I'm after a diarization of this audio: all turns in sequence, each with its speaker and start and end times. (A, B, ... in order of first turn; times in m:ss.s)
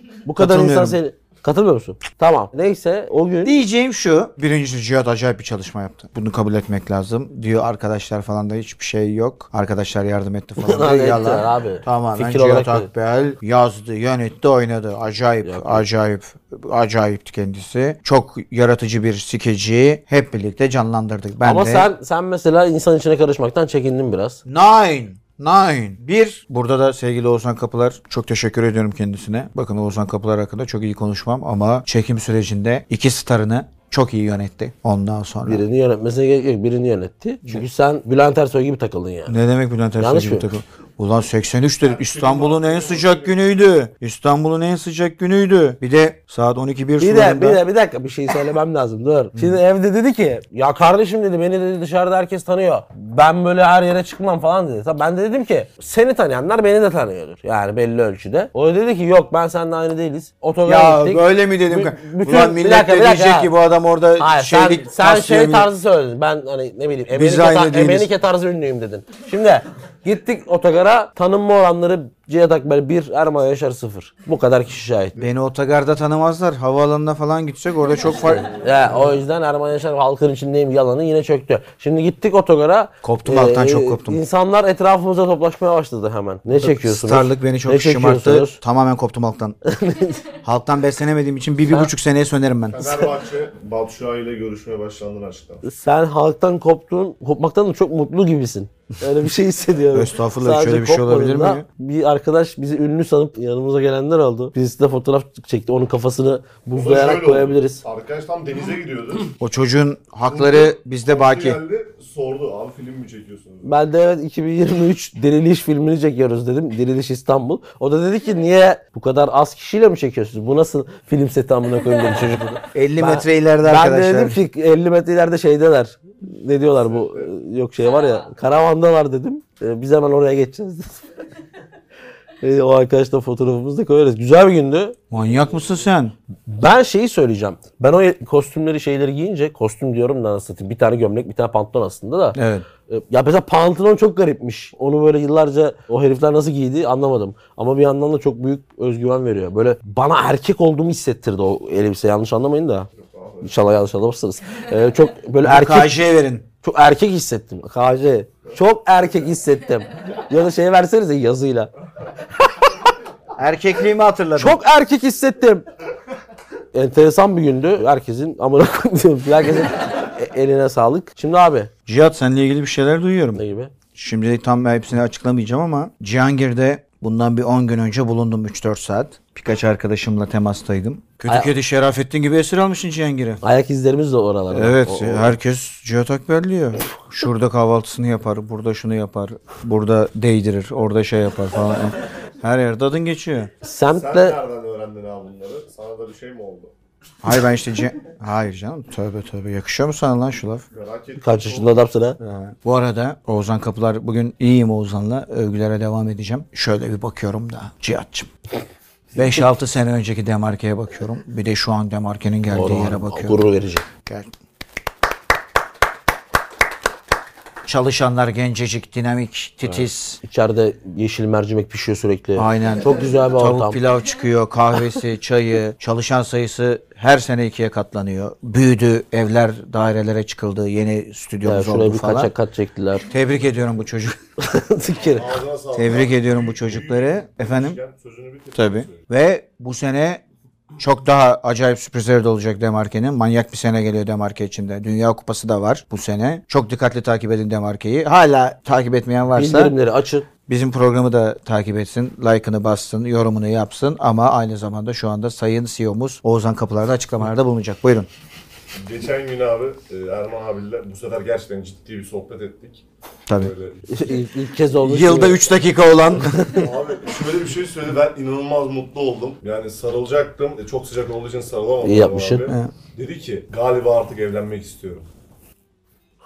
0:00.2-0:03.6 A
0:00.4-0:01.0 B
0:03.4-0:21.9 B
0:10.6-0:12.9 A
0:15.4-0:15.8 A
0:21.4-0:24.4 A
0:24.4-0:35.6 B
0:35.4-0:39.4 A
0:39.3-0:47.6 B
0:40.0-0:40.5 A
0:41.8-0:43.4 C
0:47.0-1:03.5 A
1:00.6-1:05.7 B
1:04.2-1:15.2 A
1:07.1-1:08.1 B
1:15.2-1:18.5 B
1:18.4-1:28.6 A
1:23.0-1:24.2 B
1:26.6-1:29.7 B
1:29.6-1:30.3 A
1:30.4-1:33.0 B
1:32.7-1:35.6 C
1:35.6-1:47.8 A
1:39.9-1:41.6 B
1:46.7-1:49.4 C
1:49.4-1:51.6 B
1:50.3-1:53.7 C
1:53.6-2:11.0 A
2:02.5-2:04.4 B
2:12.4-2:15.0 A
2:15.1-2:16.1 B
2:16.5-2:32.9 A
2:22.3-2:22.6 B
2:33.0-2:33.6 C
2:33.4-2:36.0 A
2:35.4-2:36.4 B
2:36.6-2:41.7 A
2:43.4-2:44.6 B
2:44.4-2:45.6 A
2:46.7-2:51.7 A
2:51.8-2:53.4 B
2:53.3-2:53.7 A
2:53.9-3:03.4 B
3:03.4-3:05.3 A
3:04.5-3:13.5 B
3:13.6-3:14.4 A
3:13.9-3:16.7 C
3:17.2-3:20.6 B
3:20.7-3:21.7 C
3:21.2-3:22.2 A
3:22.2-3:28.3 B
3:29.1-3:33.4 B
3:32.5-3:33.8 A
3:34.0-3:34.3 B
3:37.6-3:40.2 B
3:39.7-3:43.8 A
3:42.3-3:52.3 B
3:51.4-3:53.1 A
3:53.0-3:54.2 B
3:54.4-3:55.3 A
3:55.0-3:59.0 C
3:55.7-3:57.8 B
3:58.5-4:00.2 B
4:00.8-4:09.7 B
4:09.3-4:10.3 A
4:10.5-4:18.1 B
4:18.7-4:24.0 C
4:23.3-4:23.5 B
4:23.9-4:25.5 A
4:24.8-4:26.7 B
4:26.2-4:26.6 A
4:26.5-4:35.1 C
4:31.8-4:32.5 A